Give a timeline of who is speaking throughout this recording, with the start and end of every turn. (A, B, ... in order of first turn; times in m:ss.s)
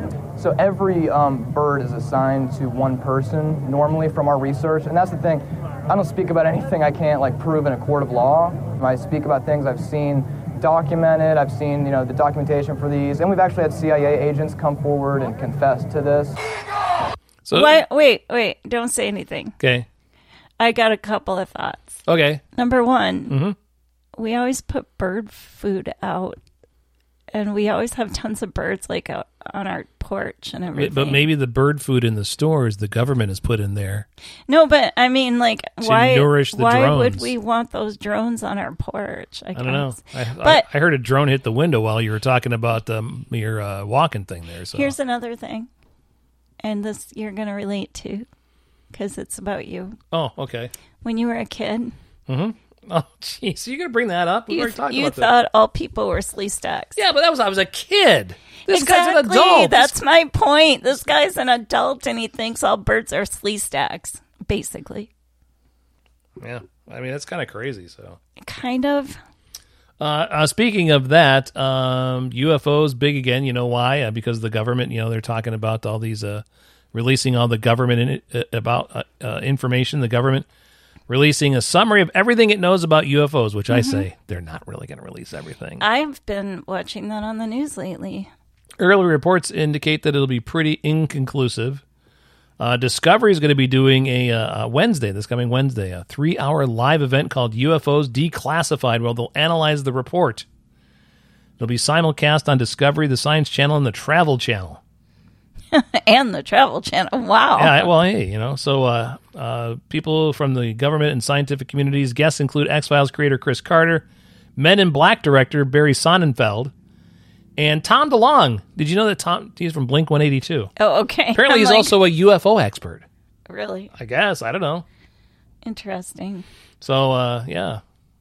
0:00.4-0:16.4 A
0:17.4-0:17.8 B
0:17.5-0:19.6 C
0:19.6-0:19.9 B
0:20.6-0:23.4 C
0:22.1-0:22.4 B
0:23.3-0:23.6 B
0:24.2-0:26.4 C
0:27.3-0:31.3 C
0:30.7-0:34.1 B
0:34.5-0:40.7 C
0:35.8-0:37.3 B
0:39.5-0:45.0 B
0:44.7-0:45.7 C
0:46.6-0:48.3 C
0:48.9-0:50.0 C
0:50.1-0:50.7 B
0:51.0-0:51.9 C
0:52.3-0:55.3 B
0:54.5-0:57.0 C
0:57.0-1:00.0 B
0:58.7-1:05.1 C
1:06.4-1:08.2 B
1:08.4-1:09.2 C
1:10.0-1:20.5 B
1:21.1-1:25.8 B
1:23.7-1:24.0 C
1:25.8-1:28.3 C
1:28.8-1:31.8 B
1:32.6-1:40.5 B
1:41.6-1:44.8 B
1:45.7-1:47.9 C
1:47.6-1:56.7 B
1:57.6-2:00.7 B
2:00.8-2:01.9 C
2:01.3-2:03.0 B
2:03.5-2:03.9 C
2:03.9-2:04.8 B
2:05.6-2:06.5 C
2:06.8-2:07.8 B